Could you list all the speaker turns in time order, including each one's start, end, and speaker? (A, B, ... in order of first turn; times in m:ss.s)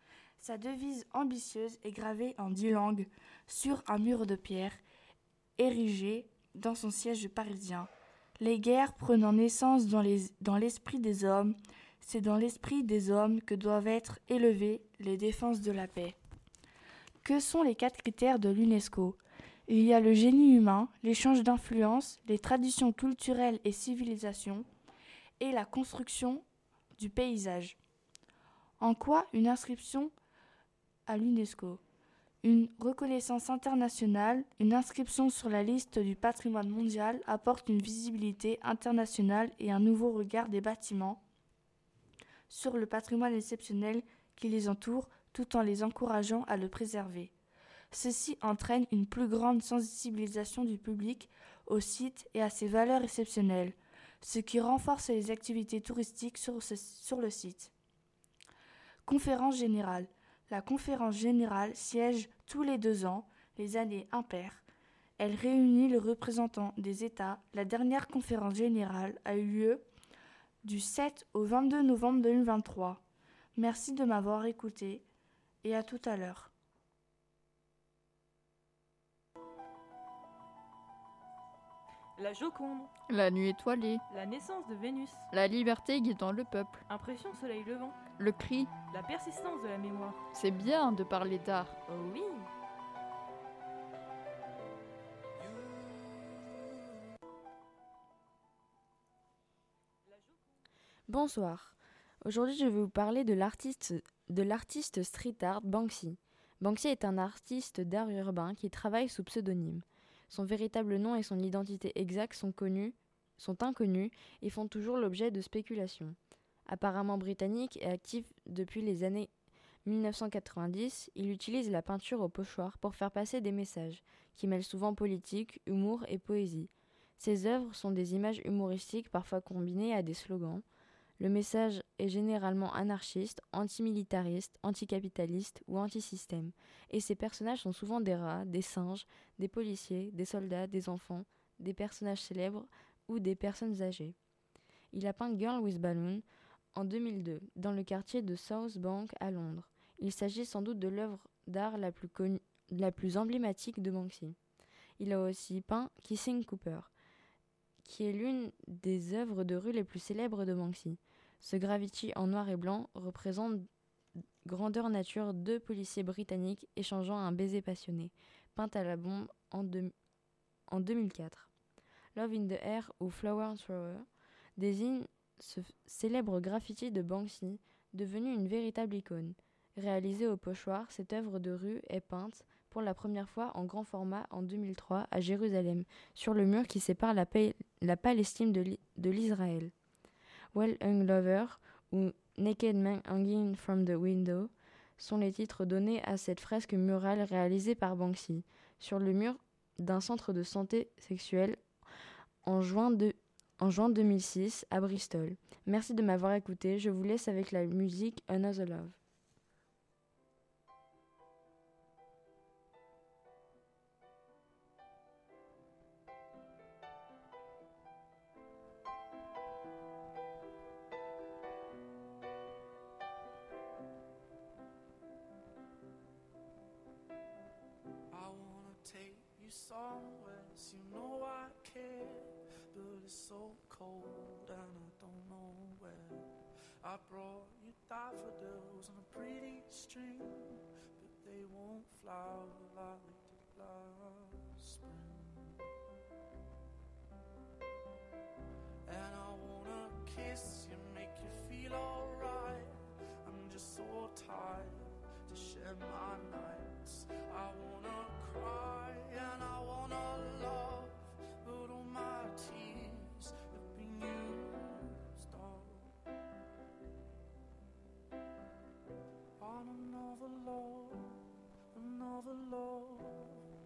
0:00.4-0:04.8 A
0:05.6-0:16.2 A
0:17.2-0:24.7 A
0:25.4-0:26.4 A
0:27.0-0:27.8 A
0:28.8-0:30.1 A
0:31.1-0:31.8 A
0:32.4-0:41.2 A
0:42.5-0:47.3 A
0:47.9-0:57.7 A
0:59.1-1:04.6 A
1:05.2-1:09.8 A
1:10.6-1:13.0 A
1:13.6-1:15.0 A
1:15.6-1:16.5 A
1:22.2-1:22.9 B
1:23.1-1:24.0 C
1:24.1-1:25.3 B
1:25.3-1:26.8 C
1:26.9-1:28.0 B
1:28.2-1:28.8 C
1:28.8-1:30.2 B
1:30.3-1:31.8 C
1:31.9-1:32.5 B
1:41.1-1:56.2 D
1:56.7-1:59.3 D
1:59.8-2:10.6 D
2:11.2-2:24.2 D
2:24.9-2:26.2 D
2:26.7-2:34.4 D
2:35.0-2:36.9 D
2:37.8-2:43.7 D
2:44.4-2:49.9 D
2:50.7-2:51.5 D
2:52.2-2:54.1 D
2:54.6-3:09.7 D
3:10.5-3:21.6 D
3:22.4-3:29.0 D
3:48.1-3:56.3 E
3:56.8-4:05.6 E
4:08.9-4:25.9 E
4:29.4-4:33.4 E